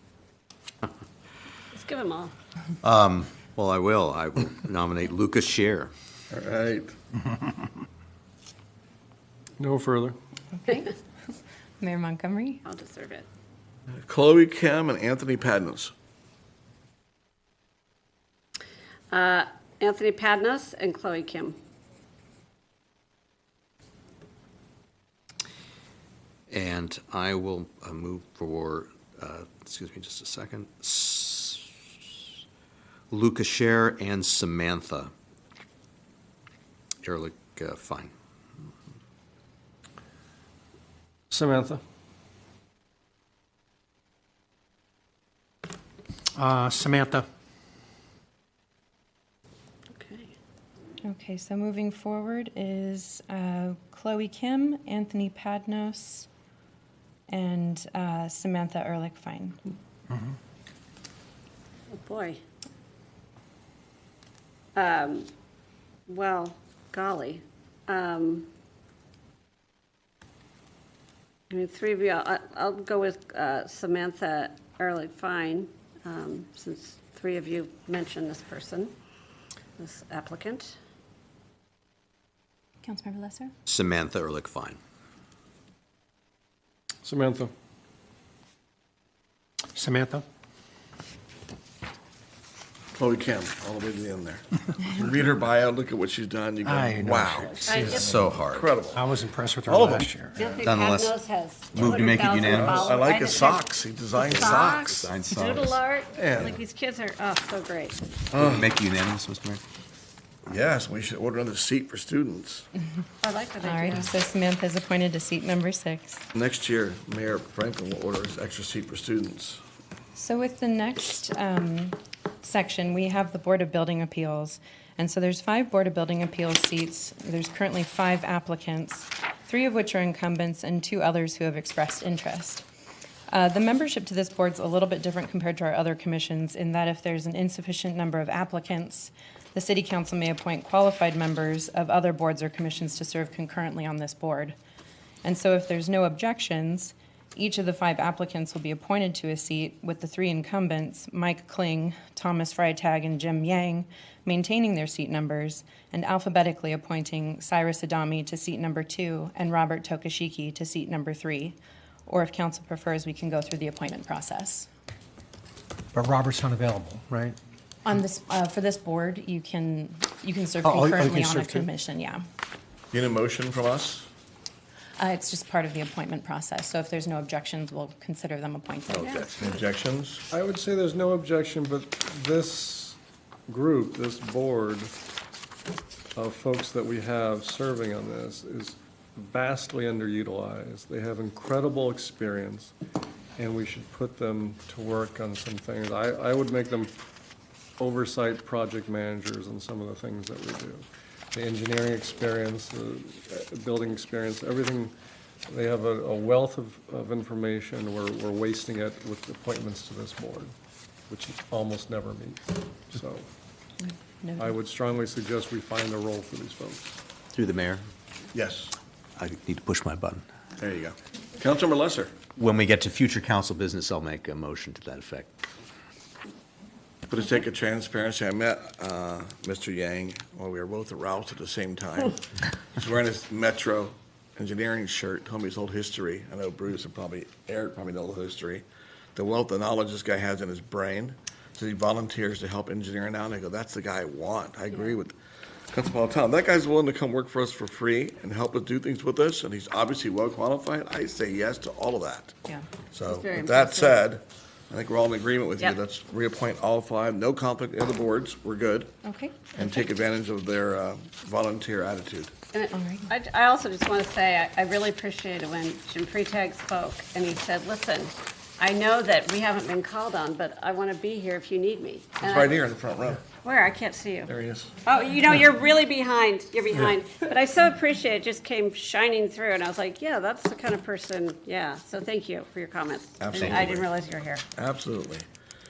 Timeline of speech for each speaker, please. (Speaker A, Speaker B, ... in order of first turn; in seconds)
Speaker A: 1.7-2.3, 12.7-13.3, 19.1-21.6, 49.9-50.3, 61.9-62.4, 64.8-65.3, 66.1-68.5, 71.5-78.9, 79.8-80.7, 97.4-98.2, 100.4-108.0, 113.2-114.1, 179.0-179.6, 253.1-254.0, 262.5-272.6, 273.4-274.3, 274.9-284.4
Speaker B: 2.8-5.9, 26.5-31.8, 33.1-35.1, 37.0-38.1, 83.7-84.8, 97.4-98.7, 100.6-101.2, 101.7-102.8, 104.4-105.8, 108.3-109.6, 217.3-217.9, 219.2-220.2, 222.4-225.3, 283.4-283.6
Speaker C: 6.3-7.0, 14.1-15.9, 93.0-99.1, 99.7-100.5, 101.8-105.1, 106.2-106.6, 108.3-108.7, 110.5-112.7, 116.3-119.6, 172.9-174.1, 179.0-180.2, 218.3-218.8, 220.6-222.2, 227.1-232.2, 232.8-238.6, 239.2-245.1, 245.7-252.3, 252.9-258.9, 259.5-262.3, 272.2-273.3, 274.3-274.7, 283.2-283.9, 284.6-285.3
Speaker D: 9.6-10.2, 41.3-41.8, 87.0-87.5, 180.3-184.9, 186.2-192.7, 193.4-197.0, 197.8-204.9, 205.5-210.5, 211.1-213.3, 214.4-216.9
Speaker E: 10.5-10.9, 11.8-12.6, 51.0-56.3, 57.3-59.6, 82.8-83.5, 113.6-116.2, 120.2-132.7, 133.3-144.6, 145.2-164.7, 167.8-172.2, 175.0-179.3, 213.8-214.6, 259.0-259.8, 262.7-263.1
Speaker F: 46.4-47.3, 89.7-90.2, 96.6-98.0, 98.9-100.4, 165.9-167.4, 170.6-171.7